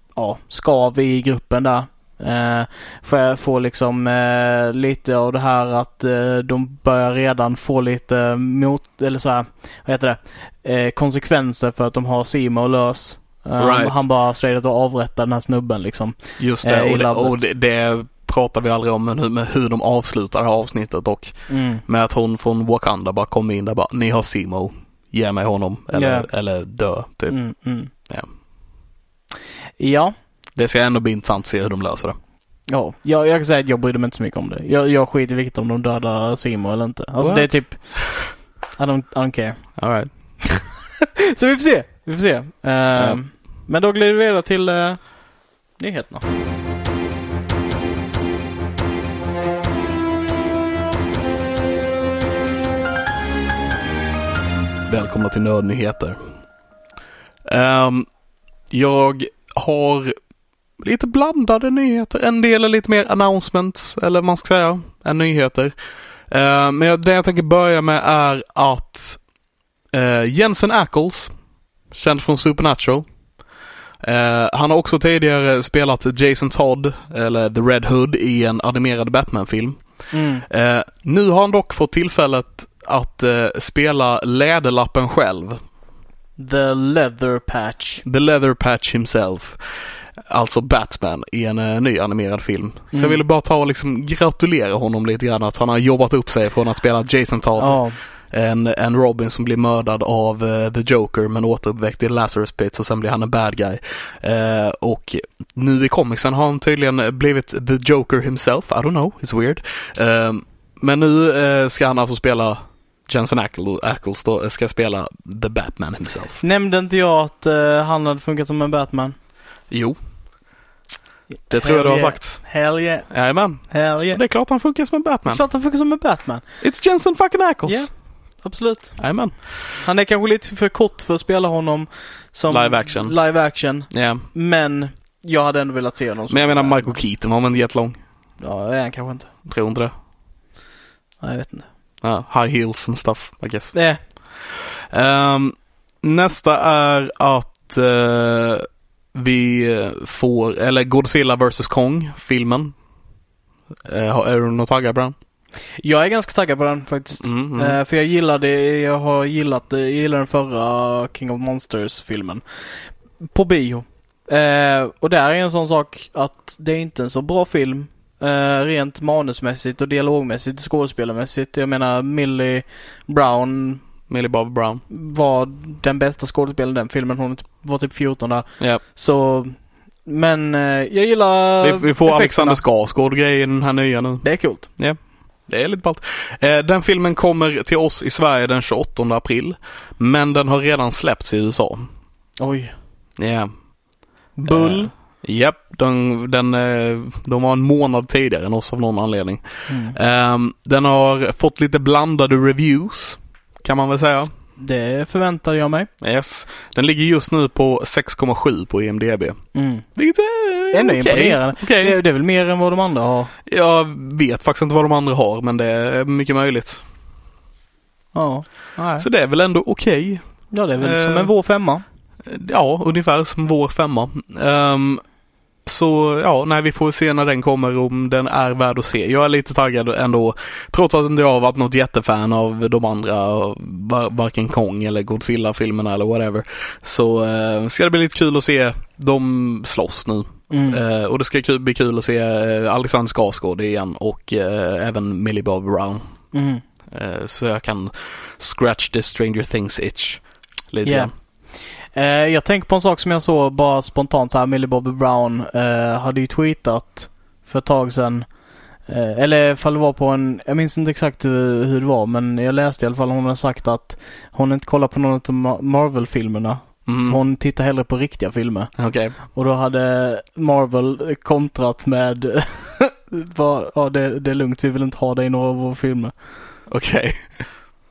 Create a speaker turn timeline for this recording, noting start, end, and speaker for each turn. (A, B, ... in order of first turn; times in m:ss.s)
0:00.2-0:17.4 A
0:13.6-0:14.0 B
0:16.4-0:21.4 B
0:21.5-0:21.8 A
0:21.9-0:27.4 B
0:25.9-0:26.3 A
0:27.3-0:27.9 A
0:29.8-0:30.1 A
0:30.6-0:32.2 B
0:32.7-0:39.7 A
0:37.2-0:38.2 B
0:39.8-0:40.1 B
0:40.4-0:46.2 A
0:54.9-0:56.2 B
0:57.5-0:58.1 B
0:58.7-1:00.1 B
1:00.8-1:05.7 B
1:06.3-1:09.2 B
1:09.9-1:11.3 B
1:11.9-1:13.0 B
1:14.0-1:19.8 B
1:20.1-1:20.4 A
1:20.5-1:25.6 B
1:26.4-1:28.0 A
1:28.0-1:29.6 B
1:30.3-1:56.4 B
1:32.9-1:33.2 A
1:37.6-1:38.0 A
1:56.4-1:59.2 A
1:59.7-2:00.0 B
2:01.5-2:03.1 A
2:01.5-2:02.4 B
2:03.1-2:05.4 B
2:03.7-2:04.2 A
2:05.3-2:06.4 A
2:06.6-2:07.9 B
2:08.4-2:09.0 A
2:09.0-2:09.3 B
2:09.8-2:17.0 A
2:12.5-2:13.2 B
2:13.9-2:14.2 B
2:16.3-2:18.0 B
2:18.4-2:19.3 A
2:19.5-2:19.9 B
2:21.2-2:21.7 A
2:22.0-2:23.7 B
2:23.7-2:24.0 A
2:24.6-2:32.7 B
2:33.8-2:35.2 B
2:35.8-2:42.4 A
2:37.2-2:37.8 B
2:43.3-2:53.8 A
2:54.1-2:54.8 B
2:54.9-3:02.6 A
3:01.6-3:11.9 B
3:04.2-3:04.7 A
3:12.4-3:12.7 A
3:13.2-3:13.5 B
3:14.4-3:14.9 A
3:14.4-3:24.3 B
3:19.7-3:20.0 A
3:24.6-3:25.9 A
3:26.0-3:29.4 B
3:29.5-3:29.9 A
3:30.0-3:32.0 B
3:30.7-3:33.3 A
3:33.5-3:36.8 B
3:38.1-3:39.1 A
3:39.0-3:40.2 B
3:40.5-3:41.8 A
3:40.8-3:41.3 B
3:42.2-3:45.0 B
3:45.7-4:06.0 B
4:00.5-4:00.8 A
4:06.3-4:06.6 A
4:06.9-4:11.1 B
4:10.8-4:11.1 A
4:12.0-4:18.3 A
4:18.9-4:28.7 A
4:26.9-4:27.2 B
4:28.8-4:29.2 B
4:29.3-4:36.1 A
4:36.7-4:37.4 B